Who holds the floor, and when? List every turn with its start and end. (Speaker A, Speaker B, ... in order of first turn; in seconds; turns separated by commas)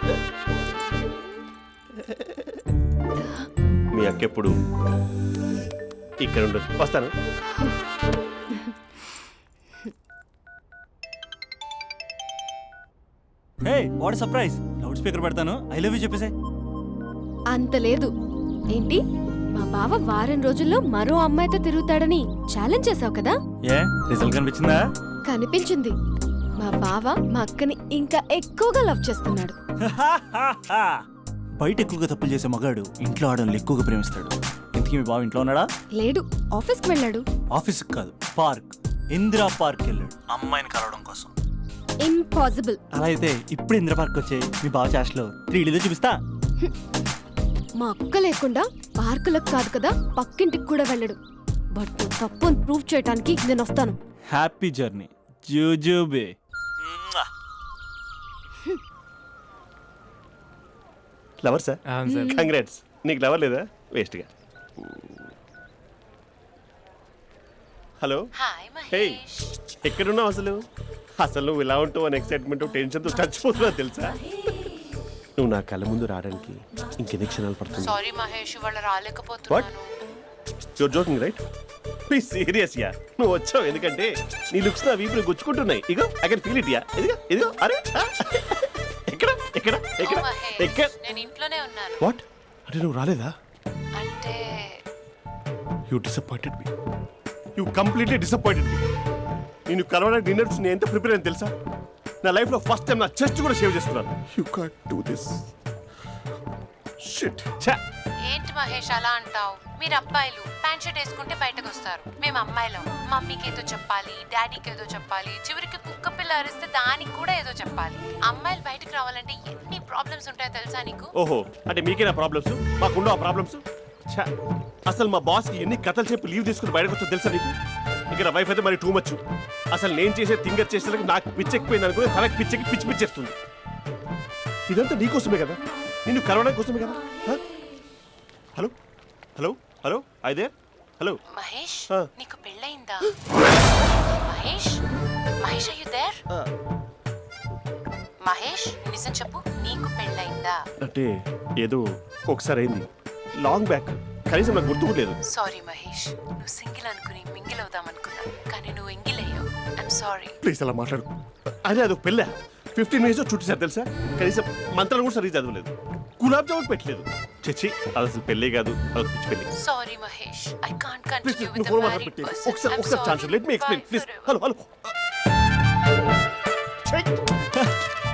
Speaker A: 3.9-4.5, Speaker A: 6.2-7.1, Speaker B: 13.6-16.3, Speaker C: 17.5-18.1, Speaker C: 18.7-19.0, Speaker C: 19.5-23.4, Speaker B: 23.7-24.8, Speaker C: 25.2-25.9, Speaker C: 26.6-29.6, Speaker B: 29.8-31.0, Speaker B: 31.6-35.7, Speaker C: 36.0-37.2, Speaker B: 37.5-41.3, Speaker C: 42.0-42.8, Speaker B: 42.9-46.1, Speaker C: 47.8-51.2, Speaker C: 51.7-54.0, Speaker B: 54.3-57.2, Speaker A: 61.4-64.3, Speaker C: 62.0-62.5, Speaker A: 64.8-65.2, Speaker A: 68.0-68.3, Speaker D: 68.4-69.5, Speaker A: 68.9-69.2, Speaker A: 69.8-70.7, Speaker A: 71.2-74.2, Speaker A: 75.4-78.0, Speaker D: 77.8-79.9, Speaker A: 80.8-81.4, Speaker A: 82.1-90.9, Speaker D: 90.0-92.0, Speaker A: 92.0-93.3, Speaker D: 94.0-94.7, Speaker A: 95.9-96.7, Speaker A: 97.5-98.8, Speaker A: 99.7-101.5, Speaker A: 102.2-105.5, Speaker A: 107.0-107.8, Speaker D: 108.2-121.1, Speaker A: 121.2-124.3, Speaker A: 124.9-127.5, Speaker A: 128.1-129.2, Speaker A: 129.7-133.3, Speaker A: 134.7-137.4, Speaker A: 139.4-141.2, Speaker D: 141.3-143.1, Speaker D: 144.2-144.8, Speaker D: 145.4-146.2, Speaker D: 148.2-150.6, Speaker A: 150.8-152.9, Speaker A: 153.4-155.2, Speaker D: 155.3-160.4, Speaker A: 160.4-161.1, Speaker A: 161.6-169.5, Speaker D: 169.6-174.3, Speaker A: 171.2-174.9, Speaker A: 176.9-177.2